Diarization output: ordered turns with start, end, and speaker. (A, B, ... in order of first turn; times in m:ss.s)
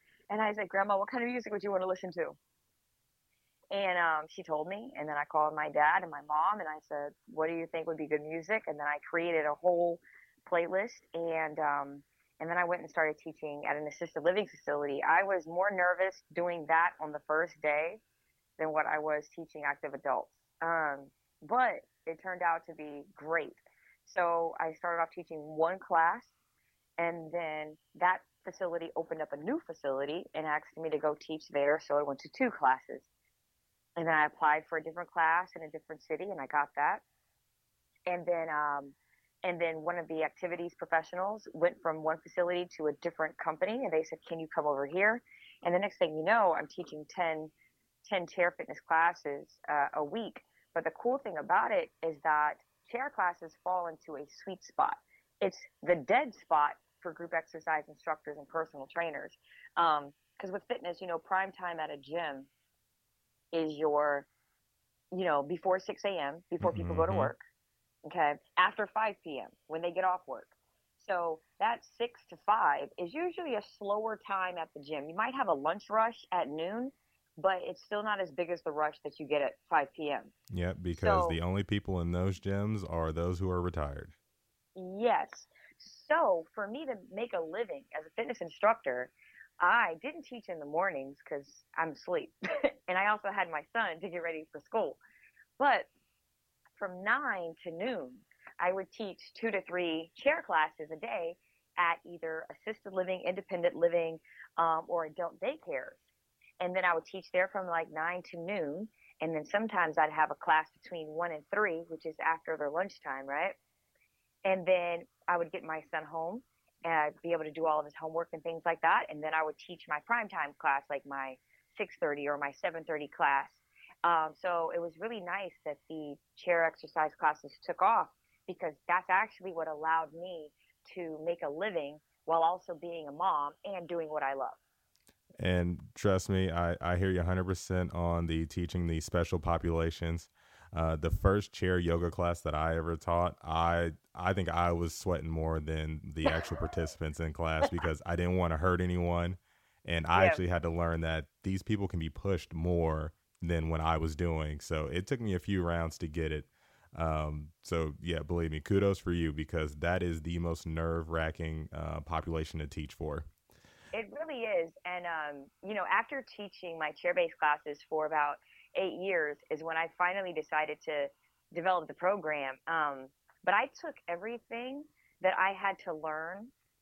0:00.3-0:02.4 A
0:03.7-0:18.0 A
0:18.6-0:26.4 A
0:27.0-0:33.1 A
0:34.0-0:37.0 A
0:38.1-0:47.5 A
0:48.1-1:02.5 A
1:03.5-1:04.3 A
1:05.1-1:07.4 A
1:06.6-1:07.3 B
1:08.0-1:20.3 A
1:20.5-1:24.2 B
1:20.9-1:21.4 A
1:24.8-1:32.3 A
1:32.9-1:35.0 A
1:35.6-1:35.9 A
1:36.8-1:53.6 A
1:54.4-2:14.6 A
2:15.4-2:43.3 B
2:30.2-2:30.4 A
2:43.9-2:56.5 A